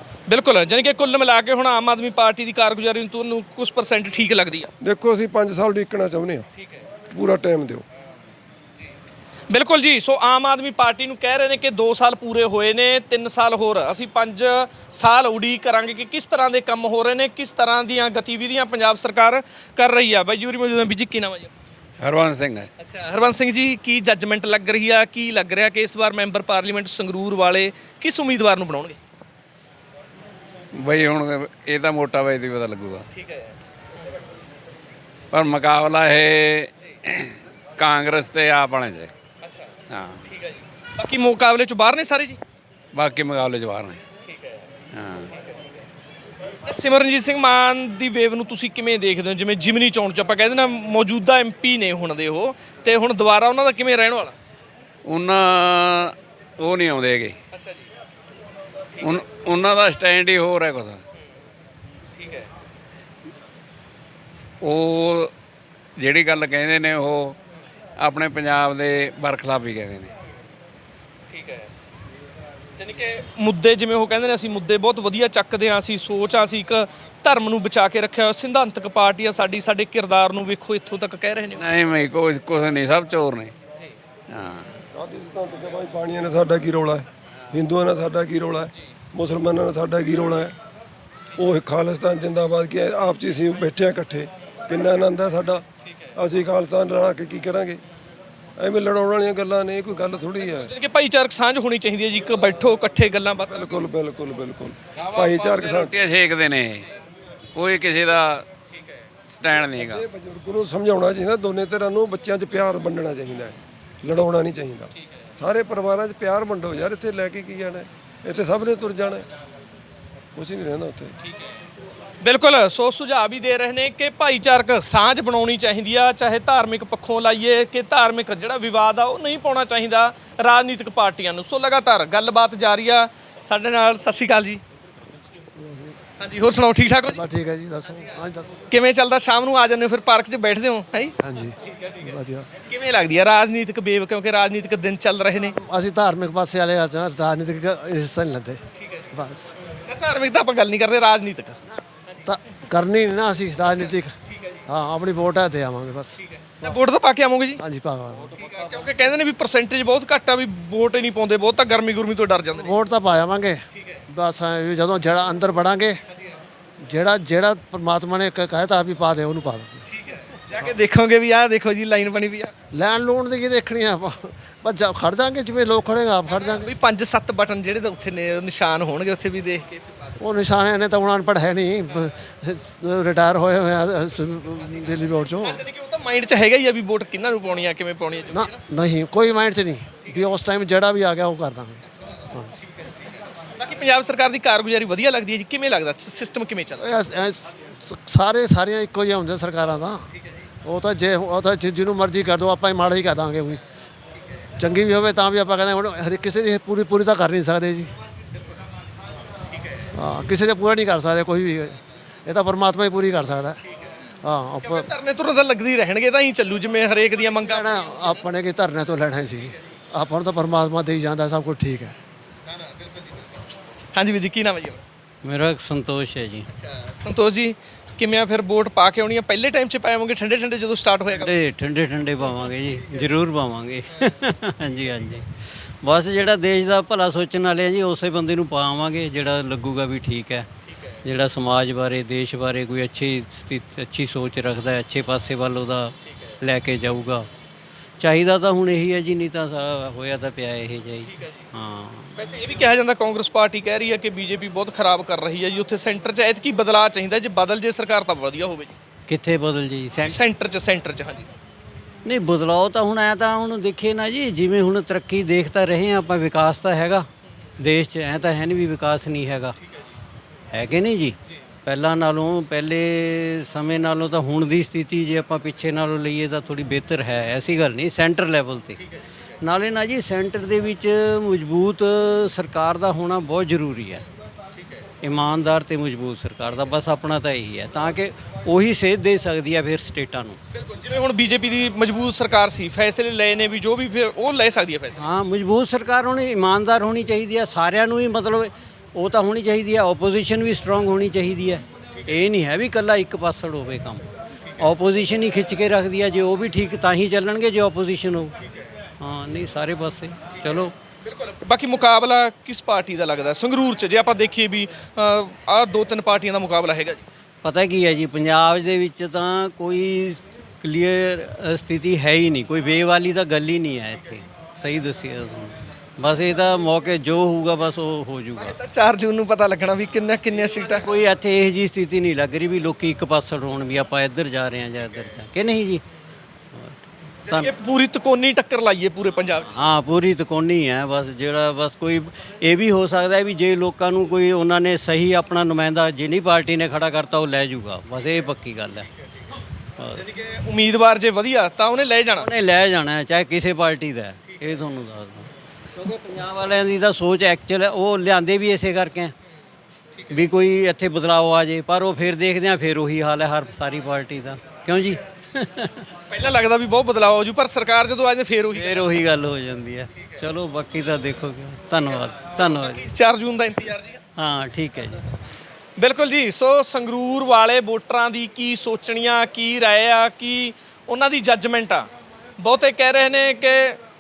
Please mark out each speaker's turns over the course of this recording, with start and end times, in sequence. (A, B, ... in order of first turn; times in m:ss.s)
0:00.3-0:04.7 A
0:04.8-0:06.5 B
0:07.1-0:07.8 B
0:09.5-0:21.5 A
0:22.0-0:22.7 C
0:22.8-0:29.0 A
0:30.8-0:33.0 C
0:33.2-0:33.5 A
0:35.3-0:39.1 C
0:39.9-0:40.2 C
0:40.3-0:42.4 A
0:42.9-0:44.0 C
0:44.3-0:44.5 A
0:44.9-0:45.3 C
0:46.6-0:54.4 A
0:55.0-0:57.4 C
0:57.6-0:57.8 A
0:59.0-1:01.0 C
1:02.2-1:02.5 A
1:04.6-1:05.3 C
1:06.0-1:07.4 C
1:08.0-1:10.1 C
1:11.3-1:11.6 A
1:12.8-1:21.6 A
1:21.6-1:23.5 C
1:24.3-1:24.7 C
1:24.9-1:30.5 B
1:31.4-1:35.6 B
1:36.2-1:37.8 B
1:38.6-1:40.7 B
1:40.5-1:43.8 A
1:43.5-1:45.9 B
1:45.2-1:46.8 C
1:47.5-1:48.4 C
1:49.4-1:50.0 C
1:49.8-1:59.2 B
2:00.3-2:01.1 B
2:02.2-2:14.6 A
2:15.5-2:16.0 D
2:16.2-2:17.2 A
2:17.1-2:18.6 D
2:18.7-2:21.2 A
2:21.2-2:22.5 D
2:22.6-2:25.6 A
2:25.6-2:28.6 D
2:29.1-2:29.5 D
2:29.9-2:31.6 A
2:32.2-2:34.1 D
2:34.7-2:36.8 D
2:36.3-2:37.6 A
2:37.6-2:38.7 D
2:38.4-2:42.8 A
2:42.6-2:46.0 D
2:46.8-2:49.8 D
2:49.9-2:52.5 A
2:52.7-2:56.7 D
2:56.3-3:00.2 A
3:00.2-3:05.6 D
3:05.4-3:08.6 A
3:08.3-3:11.8 D
3:13.6-3:17.0 A
3:16.8-3:20.1 D
3:20.6-3:23.6 D
3:24.6-3:27.9 D
3:29.9-3:33.6 D
3:34.2-3:34.9 D
3:34.6-3:38.2 A
3:37.4-3:42.0 D
3:43.9-3:44.8 A
3:45.2-3:46.4 E
3:46.5-3:51.3 A
3:51.1-3:55.2 E
3:52.3-3:53.1 A
3:54.0-3:54.2 A
3:54.8-3:55.2 A
3:55.8-4:00.5 E
4:01.0-4:07.3 E
4:08.0-4:12.1 E
4:11.0-4:11.5 A
4:12.2-4:18.8 A
4:19.1-4:20.2 E
4:20.0-4:21.3 A
4:22.0-4:27.1 E
4:27.6-4:29.5 E
4:30.5-4:38.8 E
4:39.4-4:44.0 E
4:44.6-4:44.8 A
4:45.0-4:50.4 E
4:50.5-4:55.1 A
4:55.0-5:04.0 E
5:04.6-5:08.3 E
5:09.0-5:10.7 E
5:11.0-5:17.0 A
5:17.4-5:28.6 E
5:28.4-5:30.9 A
5:30.7-5:35.8 E
5:36.5-5:37.5 E
5:37.3-5:39.6 A
5:39.5-5:48.9 E
5:49.8-5:50.1 E
5:49.9-5:52.3 A
5:52.2-5:59.1 E
6:00.1-6:05.9 E
6:06.1-6:09.0 A
6:08.5-6:12.9 E
6:10.0-6:10.3 A
6:12.3-6:14.0 A
6:14.2-6:15.0 E
6:15.8-6:23.8 A